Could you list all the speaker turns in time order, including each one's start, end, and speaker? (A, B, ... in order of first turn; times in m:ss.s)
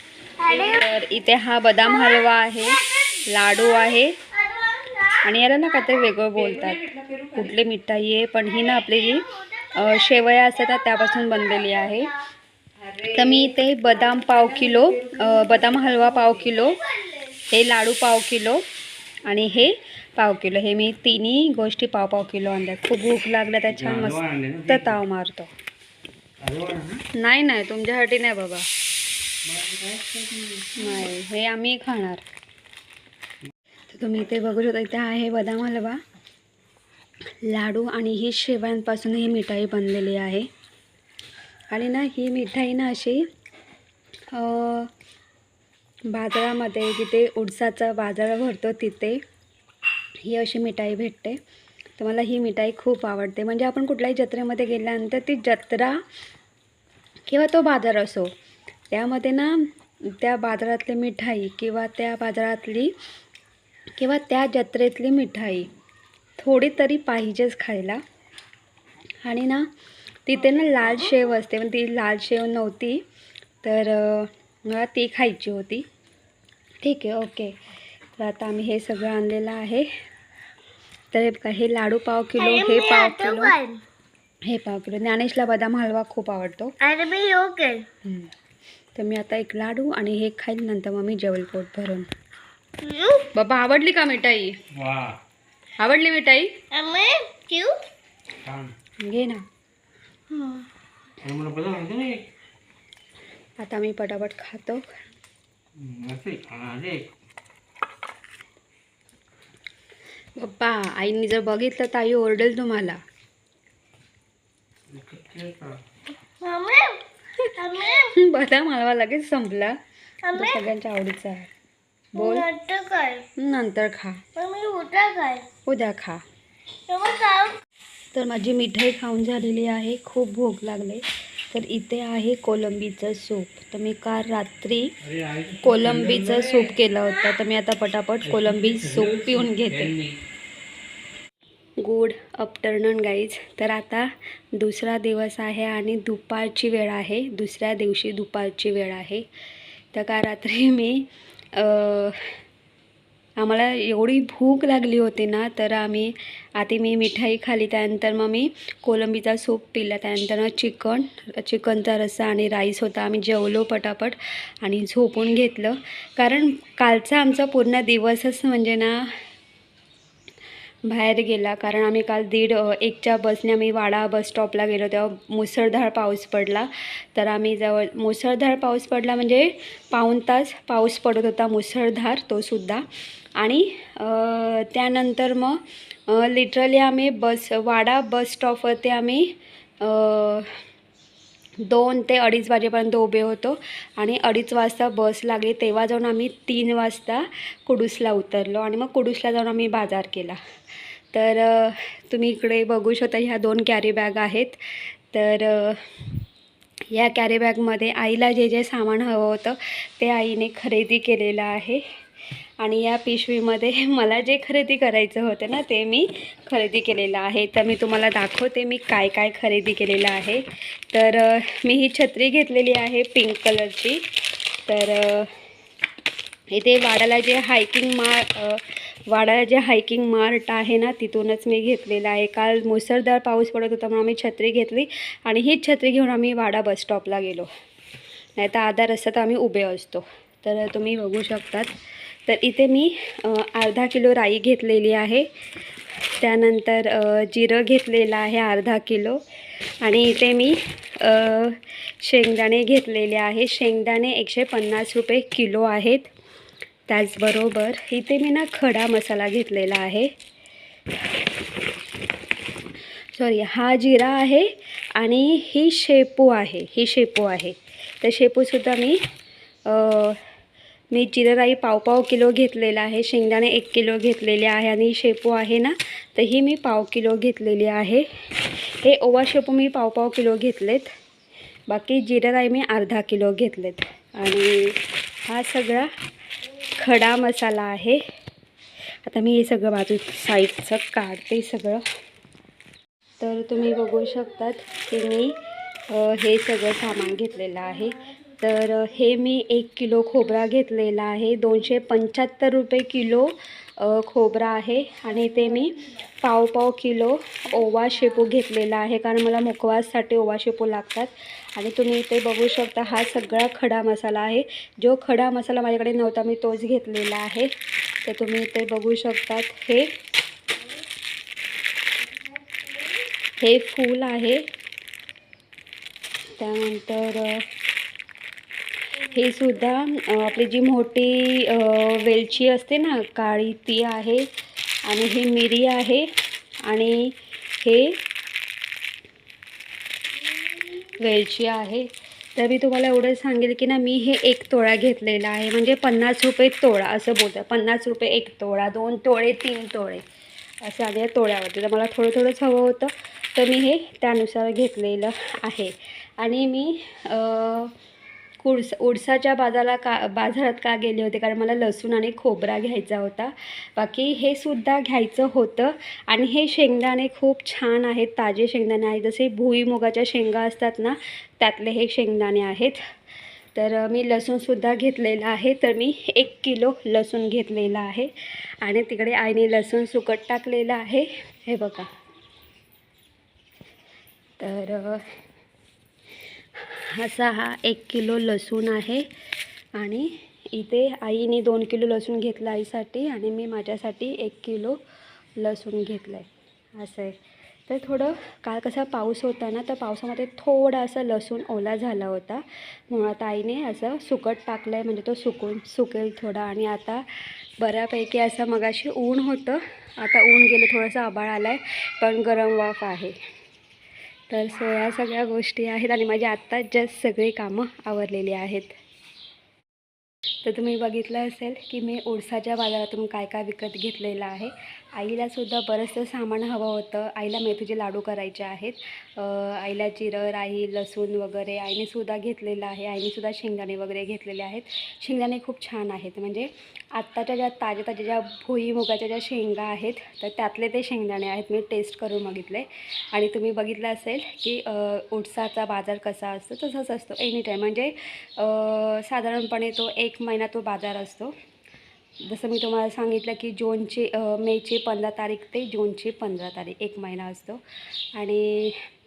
0:00.4-0:00.8 A
0:00.5-0:04.2 B
0:01.9-0:05.2 A
0:05.2-0:12.1 B
0:09.0-0:12.1 A
0:13.0-0:16.8 B
0:16.9-0:17.2 A
0:17.5-0:18.6 B
0:19.2-0:25.5 B
0:23.7-0:25.0 C
0:26.4-0:27.0 C
0:27.1-0:28.6 B
0:29.4-0:30.7 C
0:30.7-0:32.2 B
0:33.9-0:36.0 B
0:37.4-0:40.5 B
0:41.7-0:43.2 B
0:44.3-0:44.9 B
0:46.1-0:49.2 B
0:50.2-0:51.4 B
0:52.0-0:56.0 B
0:57.3-0:58.3 B
0:58.9-1:02.9 B
1:04.0-1:05.7 B
1:06.4-1:08.0 B
1:09.2-1:09.7 B
1:10.2-1:13.0 B
1:13.6-1:15.8 B
1:16.8-1:17.6 B
1:18.2-1:19.9 B
1:21.1-1:23.5 B
1:22.4-1:23.8 A
1:24.4-1:26.7 B
1:26.8-1:27.9 A
1:28.0-1:28.3 B
1:28.9-1:32.1 B
1:32.8-1:33.3 A
1:33.3-1:34.6 B
1:34.7-1:35.2 C
1:35.8-1:36.5 B
1:36.7-1:37.8 A
1:38.4-1:38.7 C
1:39.0-1:39.4 B
1:40.3-1:40.6 A
1:41.2-1:42.2 C
1:43.6-1:44.8 B
1:45.8-1:47.0 C
1:50.4-1:53.0 B
1:54.9-1:55.8 C
1:56.4-1:57.0 A
1:57.6-1:58.1 A
1:58.1-1:59.8 B
2:00.2-2:00.6 A
2:00.3-2:01.5 B
2:02.1-2:02.5 B
2:02.2-2:03.3 A
2:03.4-2:04.2 B
2:04.4-2:05.5 A
2:05.6-2:06.2 B
2:06.9-2:07.6 A
2:08.1-2:14.9 B
2:15.0-2:16.7 C
2:15.6-2:19.9 B
2:18.2-2:20.2 C
2:21.8-2:29.2 B
2:29.9-2:32.3 B
2:33.4-2:49.2 B
2:50.9-3:02.8 B
3:03.4-3:10.6 B
3:11.6-3:20.4 B
3:21.1-3:24.6 B
3:25.1-3:25.8 B
3:26.9-3:31.8 B
3:32.6-3:44.0 B
3:44.7-3:45.3 B
3:46.5-3:57.5 B
3:58.4-4:01.7 B
4:02.3-4:05.3 B
4:06.2-4:09.2 B
4:09.8-4:16.1 B
4:16.9-4:20.1 B
4:23.1-4:29.0 B
4:29.6-4:30.2 B
4:30.9-4:40.9 B
4:41.7-4:45.9 B
4:46.8-4:48.0 B
4:49.0-4:51.8 B
4:53.2-4:55.4 B
4:55.9-5:17.5 B
5:18.0-5:19.9 B
5:23.4-5:24.4 B
5:26.4-5:27.4 B
5:29.0-5:34.3 B
5:34.8-5:36.1 B
5:36.7-5:38.0 B
5:40.9-5:50.0 B
5:50.6-5:57.7 B
5:58.4-6:12.8 B
6:13.5-6:18.1 B
6:18.6-6:21.9 B
6:24.4-6:25.1 B
6:26.6-6:29.1 B
6:29.7-6:34.8 B
6:35.4-6:47.0 B
6:47.6-6:53.2 B
6:54.3-6:58.8 B
7:00.4-7:31.3 B
7:32.2-7:37.6 B
7:38.2-7:38.8 B